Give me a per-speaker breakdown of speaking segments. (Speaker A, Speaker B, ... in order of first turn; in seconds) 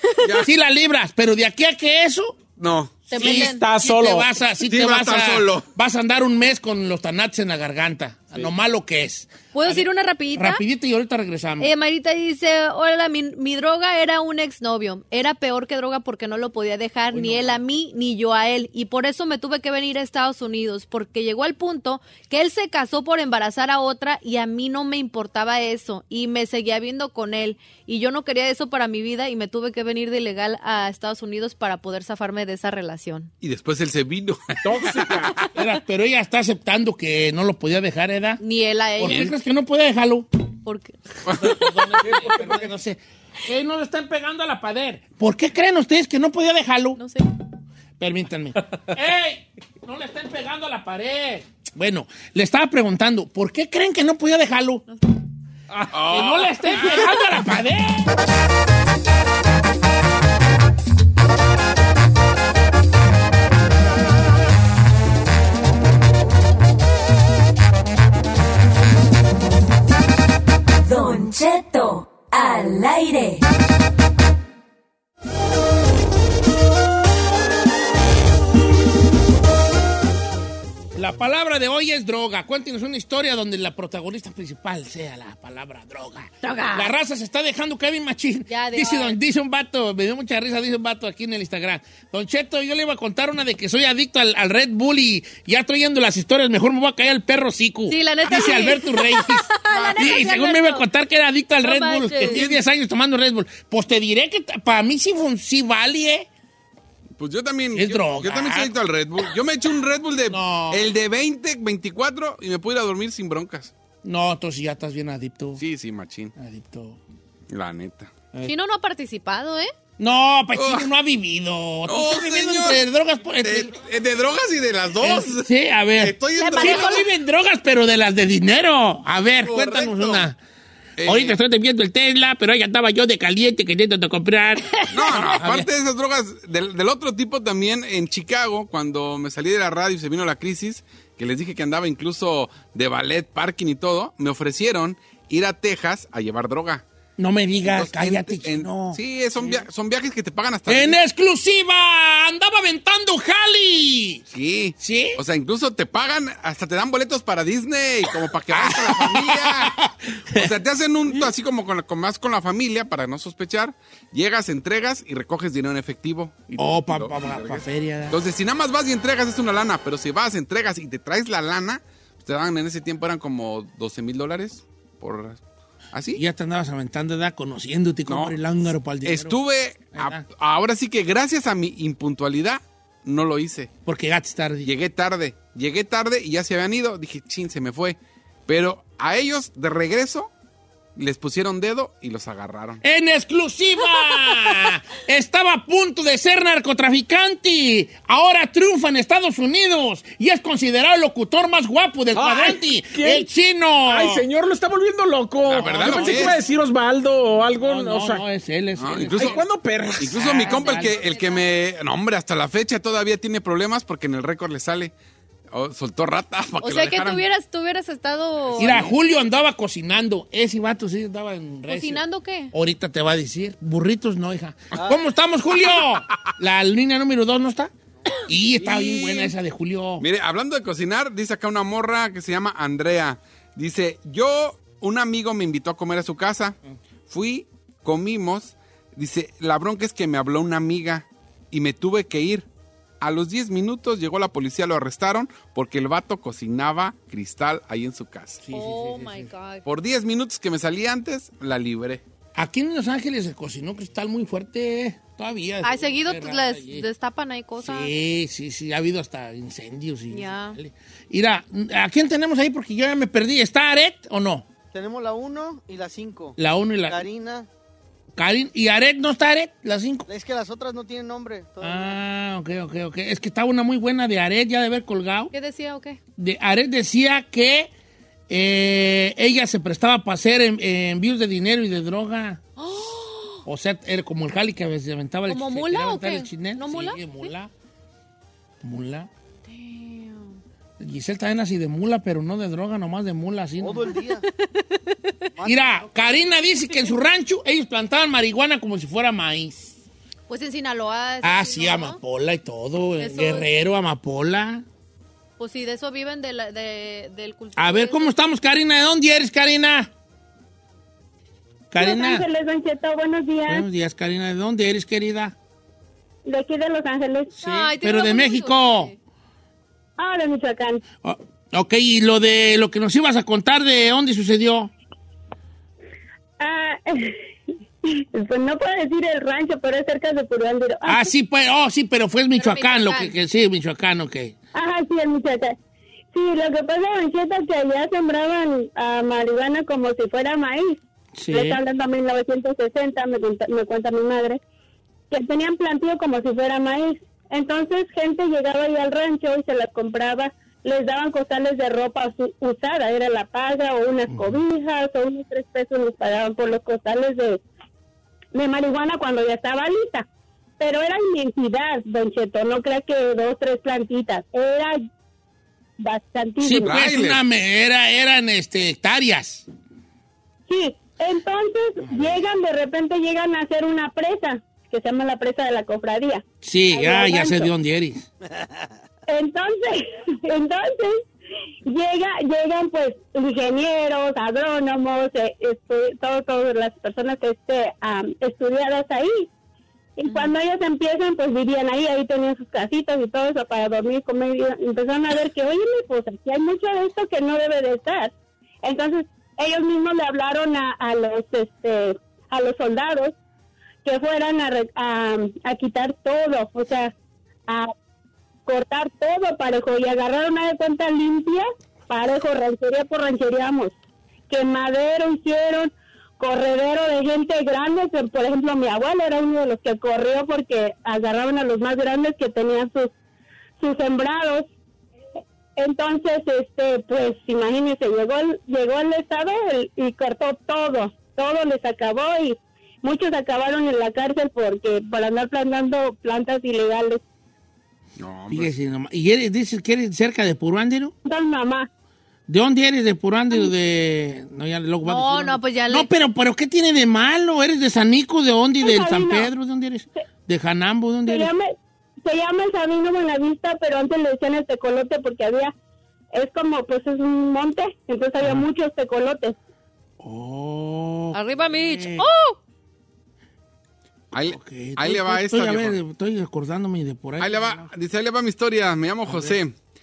Speaker A: 0.2-0.5, 2.6-3.0, 4.7-5.7, 33.4-35.3, 41.2-42.1, 55.9-57.2, 99.7-100.3, 102.2-102.6, 107.2-113.7, 115.6-116.3, 117.5-118.1, 120.5-120.9, 121.9-122.8, 123.4-127.1, 129.4-130.2, 131.0-131.4, 134.9-146.8, 147.6-151.0, 154.3-159.8, 160.3-175.4, 175.9-176.2, 178.1-178.4, 179.0-183.7, 184.6-190.3, 190.9-192.8, 205.4-206.4, 208.8-209.4, 210.0-214.9, 215.5-217.2, 218.5-219.0, 230.0-242.5, 243.0-248.4, 249.6-252.0, 366.6-367.2, 438.0-438.5, 464.1-465.8, 467.2-469.6
Speaker B: 0.4-2.4, 3.1-11.7, 17.1-17.6, 35.5-38.4, 39.0-40.3, 41.3-47.0, 48.0-54.8, 55.7-58.1, 80.9-106.3, 107.7-108.7, 110.3-110.9, 114.0-115.6, 116.4-117.0, 120.0-123.7, 125.0-130.4, 131.0-135.7, 147.2-149.6, 150.7-154.2, 154.8-155.2, 158.5-160.5, 166.6-168.2, 176.1-179.4, 179.9-180.2, 183.9-184.7, 192.8-204.2, 205.5-206.4, 207.6-209.4, 210.0-211.0, 218.6-227.7, 228.3-230.0, 248.4-249.3, 252.3-256.9, 257.6-264.4, 266.4-267.0, 268.1-270.1, 271.6-275.3, 276.2-277.7, 278.3-282.4, 283.4-287.5, 288.6-289.1, 290.8-293.9, 295.4-299.8, 301.2-304.6, 307.6-309.9, 311.7-312.2, 313.5-315.3, 317.4-318.9, 321.0-324.7, 330.8-334.3, 341.1-341.6, 354.1-354.4, 366.4-369.4, 371.8-372.2, 376.4-378.1, 438.3-440.9, 442.3-451.3, 458.2-458.5, 460.0-462.1, 464.3-467.7, 469.1-469.4
Speaker C: 3.1-3.6, 9.5-10.6, 11.6-33.3, 38.4-39.3, 40.6-41.0, 47.0-47.2, 86.4-86.9, 88.5-89.2, 97.9-100.8, 101.6-102.4, 118.4-119.7, 126.4-127.0, 210.5-211.5, 216.6-218.8, 221.7-222.5, 248.5-249.6, 255.6-257.9, 260.1-260.6, 275.3-276.0, 282.6-283.4, 285.3-287.3, 289.4-290.4, 293.9-295.2, 300.3-302.0, 303.0-303.5, 305.4-308.1, 317.4-318.9, 332.4-333.1, 390.1-390.4, 444.8-445.9, 461.1-462.4
Speaker D: 3.1-4.3, 34.6-35.4, 202.1-203.3, 203.8-208.2, 209.1-210.3, 228.6-229.3
Speaker E: 70.8-73.4
Speaker F: 264.7-267.5, 270.1-272.0, 293.6-294.2, 295.4-296.3
Speaker G: 311.8-313.6, 316.2-317.4, 320.0-320.8, 326.4-327.3, 327.8-331.1, 334.5-335.6, 336.1-340.8, 341.3-344.4, 345.1-357.4, 358.3-360.1, 360.6-364.8, 365.8-366.7, 370.5-377.5, 379.1-381.1, 381.7-389.3, 390.0-403.1, 403.8-406.9, 407.5-407.7, 408.4-413.8, 414.3-422.9, 423.6-424.5, 425.6-437.0, 441.1-441.7, 448.6-449.3, 451.1-455.5, 456.1-459.4